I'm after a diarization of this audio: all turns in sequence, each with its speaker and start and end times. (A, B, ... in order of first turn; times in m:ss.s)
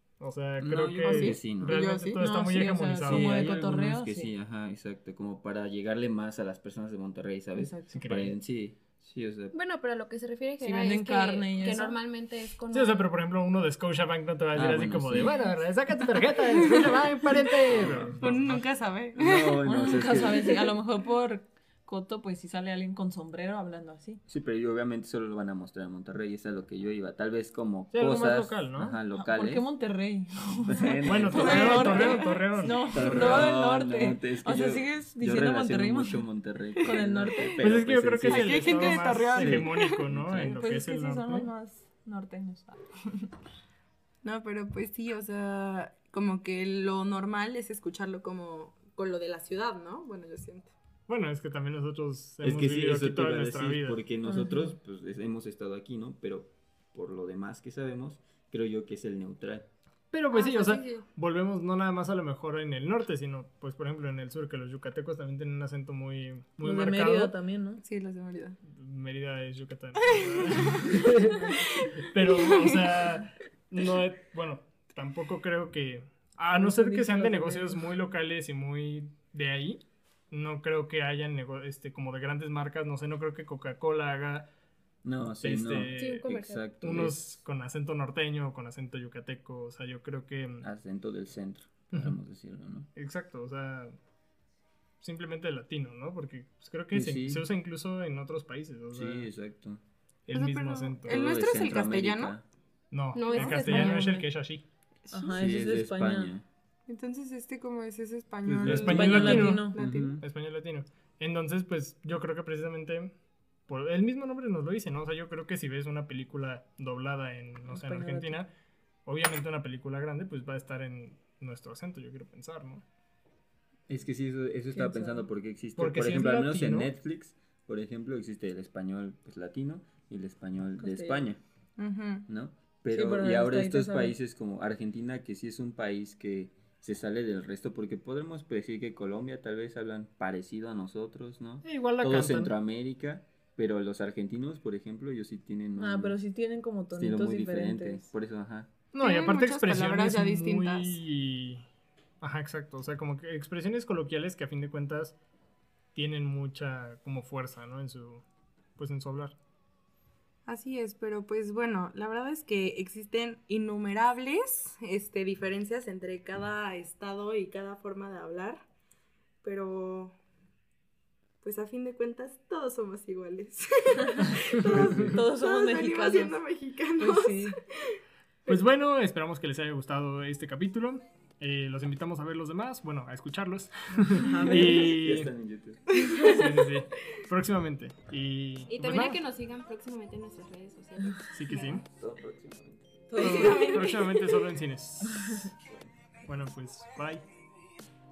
0:00.2-0:03.3 A
0:00.6-0:01.8 B
0:01.1-0:02.2 C
0:02.2-0:04.3 D
0:03.1-0:09.6 B
0:07.6-0:08.0 D
0:07.9-0:08.3 A
0:09.5-0:13.1 E
0:10.6-0:12.0 D
0:12.7-0:18.6 A
0:14.5-0:15.4 B
0:16.5-0:17.1 C
0:17.7-0:18.5 B
0:18.2-0:20.5 C
0:19.2-0:20.6 B
0:19.6-0:24.2 D
0:24.3-0:29.7 B
0:27.9-0:29.0 A
0:29.1-0:37.6 D
0:30.7-0:32.2 B
0:31.0-0:32.9 A
0:32.9-0:38.8 B
0:37.6-0:41.5 A
0:38.3-0:40.1 C
0:39.4-0:40.6 B
0:40.4-0:43.3 D
0:44.2-0:50.7 C
0:51.1-0:54.0 A
0:52.4-0:59.7 B
0:54.2-0:54.8 D
1:00.1-1:07.4 A
1:00.3-1:01.1 C
1:06.6-1:07.8 D
1:07.8-1:08.6 C
1:08.7-1:11.5 A
1:10.6-1:11.0 C
1:11.3-1:11.6 D
1:12.0-1:24.5 A
1:12.3-1:12.9 C
1:16.5-1:17.8 D
1:25.0-1:27.2 B
1:25.4-1:30.7 A
1:26.0-1:26.7 E
1:30.6-1:32.9 B
1:31.9-1:32.2 A
1:33.0-1:33.9 A
1:35.0-1:39.3 A
1:36.9-1:37.5 B
1:38.9-1:39.8 B
1:40.3-1:41.2 A
1:40.3-1:42.4 C
1:41.1-1:42.4 B
1:42.9-1:44.6 A
1:43.1-1:44.2 E
1:43.3-1:44.3 D
1:45.1-1:45.5 C
1:45.1-1:46.3 D
1:45.4-1:46.4 B
1:46.9-1:50.2 C
1:48.4-1:50.2 B
1:48.7-1:53.1 A
1:48.8-1:49.8 D
1:53.7-1:58.5 A
1:57.7-1:58.4 D
1:59.1-2:02.8 A
2:03.9-2:11.4 B
2:04.7-2:05.3 D
2:05.8-2:06.9 A
2:10.8-2:11.3 D
2:11.8-2:12.3 C
2:12.3-2:26.2 B
2:12.9-2:14.2 D
2:21.6-2:22.5 A
2:25.8-2:28.1 D
2:26.9-2:28.7 B
2:28.9-2:31.6 A
2:29.0-2:31.0 C
2:32.2-2:35.2 A
2:36.0-2:38.2 A
2:38.8-2:39.4 A
2:40.5-2:48.6 C
2:49.4-2:50.2 C
2:51.4-2:58.6 C
2:54.4-2:55.1 A
2:54.9-2:56.4 D
2:57.0-2:57.6 D
2:58.5-3:05.3 A
3:04.1-3:05.0 D
3:04.5-3:05.8 B
3:05.9-3:06.3 C
3:06.0-3:06.7 E
3:06.3-3:09.2 A
3:08.7-3:11.8 E
3:11.3-3:11.8 A
3:11.7-3:13.2 B
3:13.1-3:13.7 D
3:13.2-3:15.5 A
3:13.2-3:14.4 E
3:15.1-3:15.4 D
3:15.6-3:16.0 B
3:16.2-3:17.2 A